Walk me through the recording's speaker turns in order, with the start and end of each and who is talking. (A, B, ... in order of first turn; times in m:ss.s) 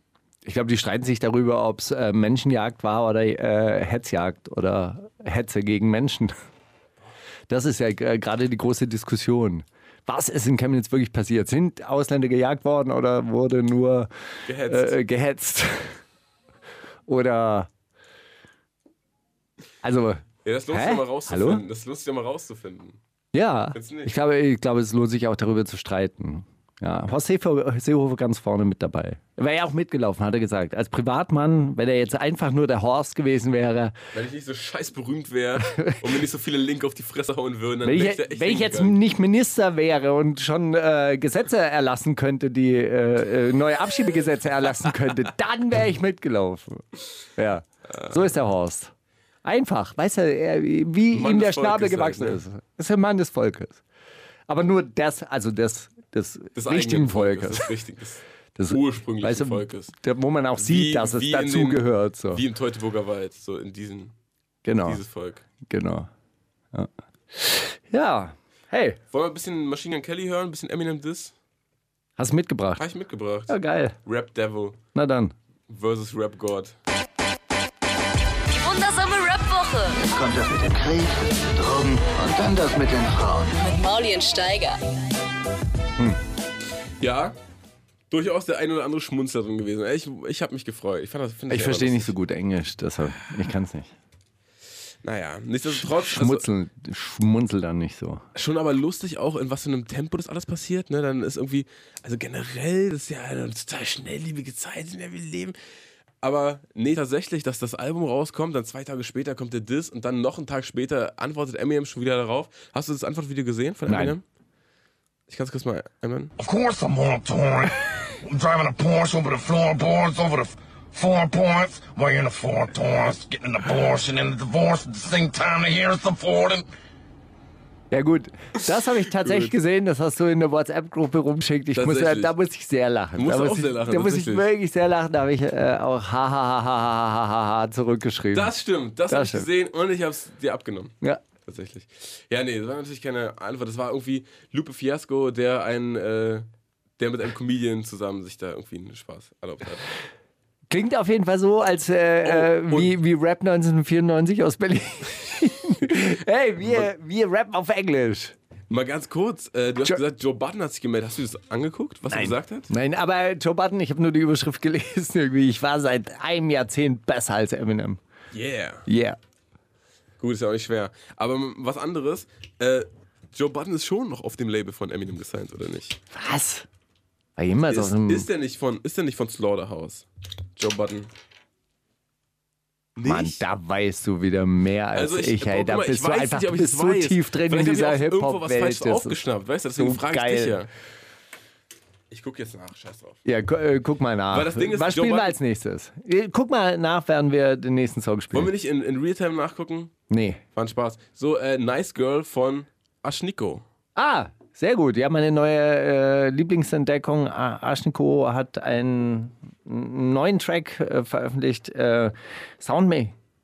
0:00.4-0:06.4 A
0:07.5-0:14.1 A
0:14.5-0:15.0 B
0:14.7-0:16.0 A
0:17.1-0:17.7 A
0:19.8-0:21.6 A
0:20.4-0:23.0 B
0:23.3-0:34.0 A
0:23.7-0:24.1 B
0:34.1-0:39.0 B
0:35.6-0:36.2 A
0:37.8-0:48.9 A
0:49.4-0:53.8 A
0:51.1-0:52.4 B
0:54.5-0:57.8 A
0:56.6-0:59.9 B
0:58.6-1:02.4 A
1:00.6-1:04.1 B
1:04.6-1:05.0 A
1:04.8-1:05.4 B
1:05.6-1:06.1 A
1:06.7-1:09.0 A
1:09.1-1:11.4 B
1:12.2-1:12.8 A
1:12.8-1:14.8 B
1:13.5-1:14.0 A
1:15.0-1:15.3 A
1:15.7-1:16.8 B
1:18.5-1:20.0 C
1:20.1-1:23.5 D
1:23.6-1:24.8 C
1:27.0-1:27.4 B
1:28.1-1:32.1 B
1:31.5-1:33.9 A
1:35.0-1:36.5 B
1:35.6-1:38.2 A
1:38.4-1:45.6 B
1:46.2-1:54.2 B
1:53.9-1:54.2 A
1:55.3-1:56.3 B
1:56.4-2:06.7 E
2:07.9-2:18.5 A
2:09.2-2:09.5 B
2:11.7-2:12.3 B
2:13.2-2:14.5 B
2:18.3-2:26.5 B
2:19.1-2:19.5 A
2:27.0-2:29.9 B
2:30.7-2:38.4 A
2:32.2-2:33.0 B
2:38.7-2:42.7 B
2:42.1-2:48.0 A
2:48.3-2:48.9 B
2:48.9-2:49.2 A
2:50.2-2:56.0 B
2:56.1-2:56.7 A
2:57.4-2:58.3 A
2:57.7-3:01.1 B
3:03.0-3:03.4 B
3:03.0-3:09.2 A
3:04.9-3:10.7 B
3:09.7-3:10.6 A
3:12.1-3:13.2 B
3:13.2-3:18.5 A
3:14.3-3:15.4 B
3:18.3-3:19.9 B
3:20.1-3:20.4 A
3:20.6-3:23.6 B
3:24.0-3:33.2 A